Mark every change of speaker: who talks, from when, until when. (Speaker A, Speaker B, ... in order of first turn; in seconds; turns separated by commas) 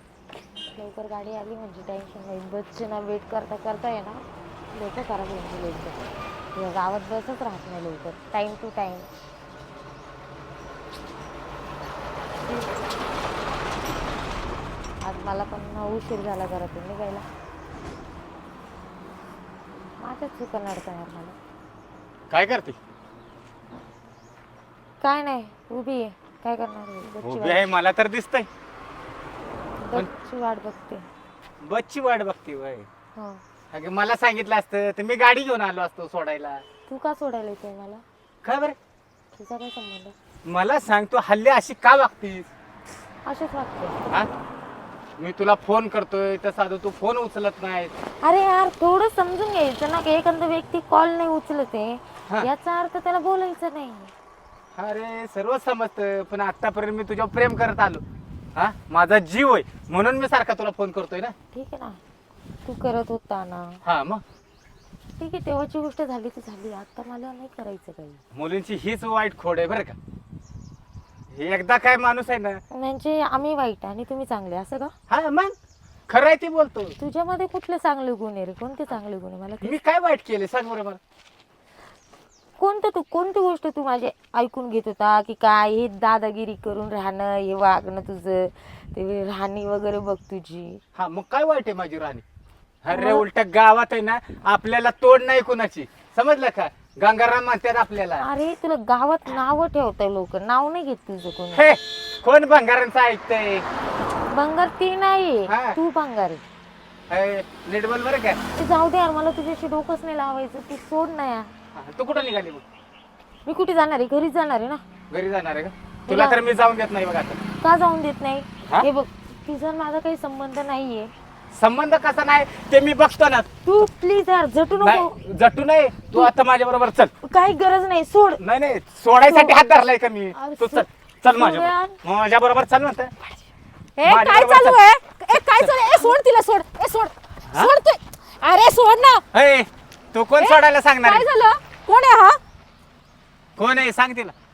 Speaker A: 0.7-6.0, Speaker A: 6.5-9.1, Speaker A: 15.0-17.2, Speaker A: 20.0-21.4, Speaker B: 22.3-22.8, Speaker A: 25.0-27.6, Speaker B: 27.2-28.5, Speaker A: 29.8-31.1, Speaker B: 31.6-32.9, Speaker A: 33.1-33.4, Speaker B: 33.7-36.6, Speaker A: 36.9-38.0, Speaker B: 38.4-38.8, Speaker A: 39.3-40.1, Speaker B: 40.5-42.5, Speaker A: 43.2-44.1, Speaker B: 45.2-47.9, Speaker A: 48.2-54.1, Speaker B: 54.8-58.0, Speaker B: 58.5-61.3, Speaker A: 61.5-62.0, Speaker A: 62.6-63.8, Speaker B: 63.8-64.2, Speaker A: 65.2-68.2, Speaker B: 68.3-70.0, Speaker B: 71.3-72.6, Speaker A: 72.7-74.9, Speaker B: 75.1-75.5, Speaker B: 76.1-76.9, Speaker A: 77.0-79.7, Speaker B: 79.6-81.0, Speaker A: 82.6-90.8, Speaker B: 90.9-92.2, Speaker B: 92.8-98.2, Speaker A: 92.9-93.2, Speaker A: 98.2-101.7, Speaker B: 101.5-103.6, Speaker A: 104.3-106.4, Speaker B: 105.5-105.8, Speaker B: 107.1-108.4, Speaker A: 108.5-111.5, Speaker B: 111.7-112.6, Speaker A: 113.5-114.8, Speaker B: 115.1-117.4, Speaker A: 116.1-116.4, Speaker A: 117.6-121.1, Speaker B: 121.5-123.5, Speaker A: 123.7-125.2, Speaker B: 124.8-127.1, Speaker A: 127.2-128.4, Speaker B: 128.4-133.1, Speaker A: 129.2-129.5, Speaker A: 130.3-132.0, Speaker C: 134.0-139.2, Speaker B: 134.0-134.8, Speaker B: 139.3-141.2, Speaker C: 140.4-142.4, Speaker B: 143.6-144.3